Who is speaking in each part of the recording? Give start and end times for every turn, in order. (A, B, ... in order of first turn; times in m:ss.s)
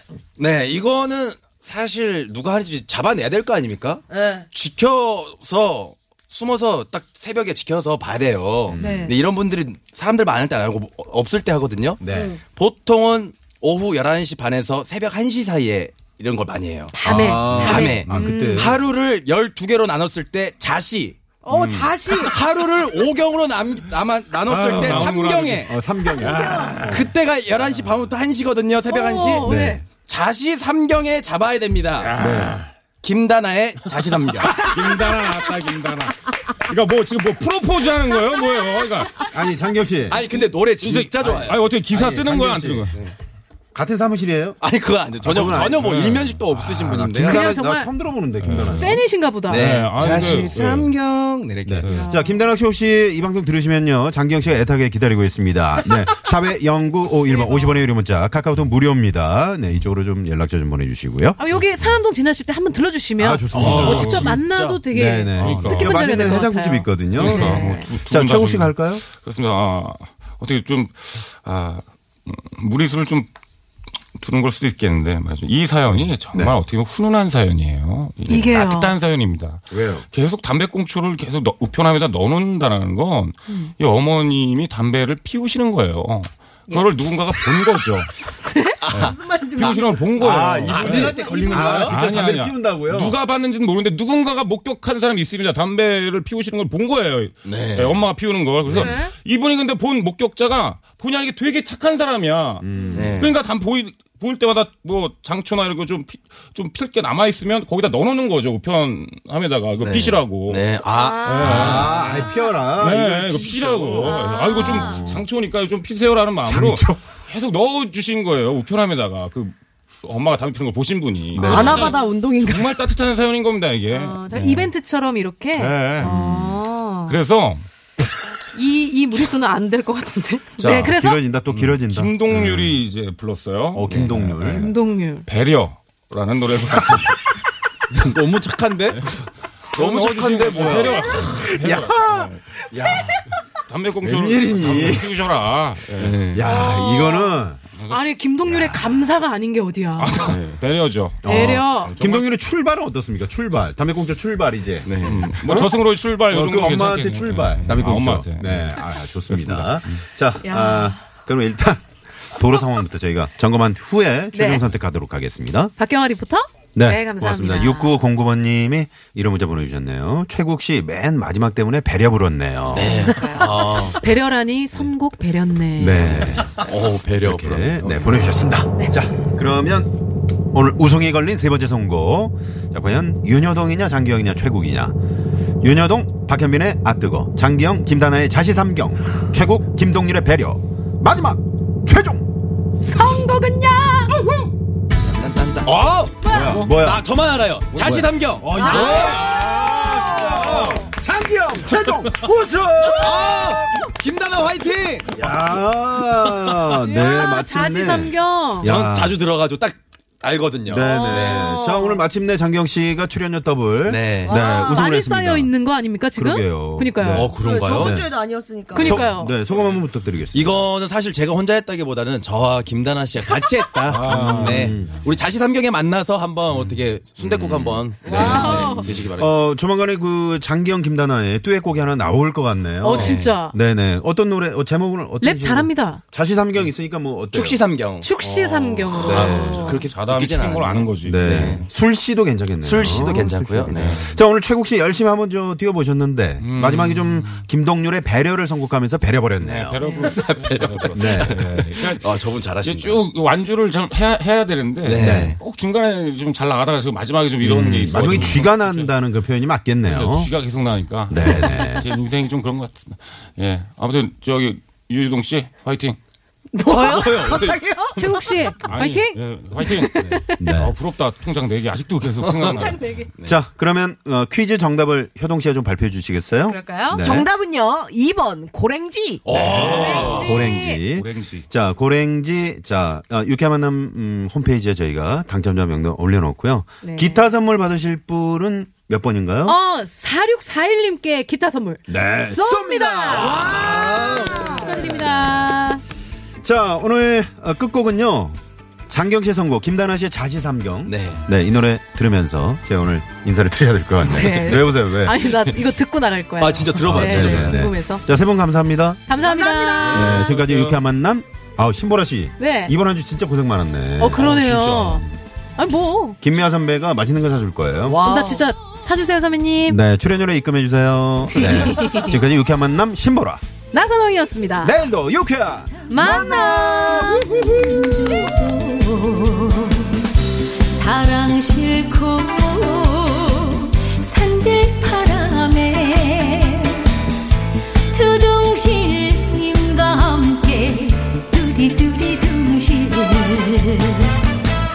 0:00.4-0:17.0 A
0:04.1-0:04.5 B
0:08.7-0:09.1 C
0:08.8-0:09.2 D
0:12.0-0:12.4 C
0:12.1-0:12.4 B
0:17.0-0:18.8 D
0:17.0-0:18.8 C
0:17.5-0:21.2 A
0:21.4-0:22.4 D
0:21.5-0:21.9 E
0:22.0-0:25.8 A
0:24.4-0:27.1 E
0:24.5-0:27.1 C
0:26.9-0:32.2 A
0:28.9-0:29.8 D
0:29.4-0:29.8 C
0:32.0-0:32.7 E
0:32.2-0:32.6 C
0:33.0-0:34.7 A
0:33.8-0:39.3 E
0:34.6-0:35.0 C
0:39.3-0:40.3 C
0:40.1-0:41.6 A
0:40.8-0:43.0 E
0:41.2-0:43.0 C
0:43.7-0:44.6 C
0:44.6-0:47.4 A
0:45.2-0:49.0 C
0:45.2-0:46.4 E
0:47.2-0:47.9 D
0:48.4-0:50.9 E
0:48.7-0:49.7 D
0:49.5-0:51.9 A
0:51.6-1:01.4 C
0:51.8-0:52.1 E
0:51.9-0:52.5 D
0:57.3-0:57.8 D
1:01.4-1:07.9 D
1:03.2-1:09.0 C
1:03.5-1:04.9 A
1:03.6-1:04.4 E
1:05.4-1:06.2 E
1:05.4-1:05.7 A
1:07.2-1:13.3 E
1:14.2-1:28.1 E
1:16.1-1:16.6 C
1:18.3-1:18.9 D
1:19.7-1:20.1 C
1:28.4-1:28.8 D
1:28.8-1:31.6 B
1:28.9-1:50.7 E
1:30.2-1:33.2 C
1:30.7-1:32.0 A
1:37.4-1:38.1 A
1:38.6-1:38.9 C
1:38.7-1:39.1 D
1:42.6-1:43.2 C
1:43.0-1:43.4 A
1:49.8-1:52.3 A
1:50.9-1:52.3 D
1:51.2-1:52.1 E
1:51.4-1:55.3 C
1:52.7-2:04.7 E
1:54.0-1:55.0 D
1:56.4-1:57.0 C
2:01.3-2:01.9 C
2:01.4-2:02.8 B
2:01.5-2:01.9 D
2:03.9-2:07.2 D
2:05.6-2:06.1 E
2:06.0-2:06.6 C
2:07.1-2:07.7 E
2:08.5-2:11.2 D
2:10.6-2:11.0 E
2:10.8-2:12.8 C
2:11.5-2:14.7 E
2:13.7-2:14.7 C
2:14.4-2:15.3 D
2:15.2-2:17.3 E
2:17.9-2:19.1 A
2:18.9-2:19.2 E
2:19.7-2:21.1 A
2:19.8-2:22.4 E
2:20.8-2:21.3 D
2:21.2-2:23.2 C
2:23.7-2:26.2 E
2:24.0-2:25.2 C
2:26.0-2:26.5 A
2:26.3-2:27.6 C
2:26.4-2:30.4 D
2:27.8-2:28.0 E
2:28.4-2:29.1 C
2:30.0-2:32.3 E
2:30.3-2:30.6 A
2:31.2-2:45.7 C
2:31.2-2:32.0 D
2:34.8-2:35.5 A
2:35.0-2:40.0 E
2:40.4-2:41.0 D
2:44.3-2:44.7 D
2:45.8-2:48.0 D
2:46.8-2:53.1 C
2:52.7-2:54.0 A
2:52.8-2:56.4 D
2:55.8-2:59.9 C
2:55.9-2:58.2 A
3:00.5-3:05.0 C
3:05.6-3:12.2 C
3:12.8-3:14.1 D
3:13.0-3:13.2 C
3:14.1-3:14.5 C
3:15.0-3:19.2 A
3:16.2-3:17.1 C
3:16.3-3:16.6 D
3:16.4-3:16.7 E
3:17.7-3:23.9 C
3:18.4-3:20.9 E
3:18.6-3:19.3 B
3:18.6-3:19.3 D
3:20.0-3:20.4 B
3:21.8-3:22.2 E
3:23.0-3:25.3 A
3:25.1-3:29.2 C
3:26.8-3:28.7 D
3:28.6-3:31.5 A
3:30.7-3:35.6 C
3:30.8-3:32.0 D
3:33.8-3:34.4 A
3:34.2-3:34.8 B
3:34.4-3:37.3 D
3:36.1-3:38.1 C
3:37.1-3:38.0 A
3:37.4-3:39.1 B
3:38.7-3:39.4 D
3:38.7-3:40.7 C
3:39.5-3:49.4 A
3:43.8-3:45.1 E
3:44.1-3:45.0 C
3:47.2-3:57.6 C
3:48.0-3:48.4 B
3:48.1-3:49.0 D
3:52.8-3:53.6 D
3:52.9-3:53.3 A
3:55.2-3:56.0 D
3:57.3-4:01.7 A
3:58.0-3:59.8 D
3:59.0-3:59.8 C
3:59.1-4:01.7 E
4:01.0-4:09.8 C
4:02.6-4:04.2 A
4:03.8-4:04.1 E
4:06.4-4:07.5 E
4:09.4-4:18.9 E
4:09.8-4:10.1 D
4:10.0-4:13.0 A
4:10.9-4:11.4 C
4:14.8-4:15.4 A
4:15.0-4:15.4 C
4:17.4-4:20.3 C
4:19.8-4:26.0 E
4:21.1-4:21.9 C
4:21.4-4:21.8 D
4:26.5-4:28.5 B
4:26.7-4:28.1 A
4:28.0-4:30.4 D
4:28.6-4:32.8 E
4:30.0-4:30.2 A
4:30.4-4:30.8 C
4:32.2-4:33.4 A
4:32.5-4:33.1 D
4:33.2-4:37.3 C
4:36.5-4:37.0 D
4:36.9-4:39.3 B
4:39.2-4:40.4 A
4:39.3-4:49.6 C
4:39.4-4:41.5 E
4:39.6-4:40.8 D
4:46.8-4:47.2 D
4:49.4-4:55.8 D
4:51.9-4:55.3 C
4:56.4-5:05.4 C
5:00.8-5:01.3 A
5:04.0-5:08.0 D
5:06.4-5:07.7 A
5:06.8-5:09.0 C
5:09.1-5:10.2 D
5:09.2-5:10.3 B
5:09.8-5:14.2 C
5:10.0-5:10.8 E
5:12.4-5:12.8 D
5:14.0-5:16.2 D
5:14.2-5:15.1 E
5:16.2-5:18.0 C
5:17.9-5:18.4 B
5:18.0-5:19.8 D
5:19.7-5:23.4 C
5:21.3-5:22.2 D
5:23.7-5:24.8 D
5:24.6-5:28.0 C
5:25.9-5:27.2 D
5:27.2-5:29.8 F
5:28.0-5:28.3 D
5:30.6-5:36.7 F
5:32.5-5:33.2 D
5:37.9-5:43.8 F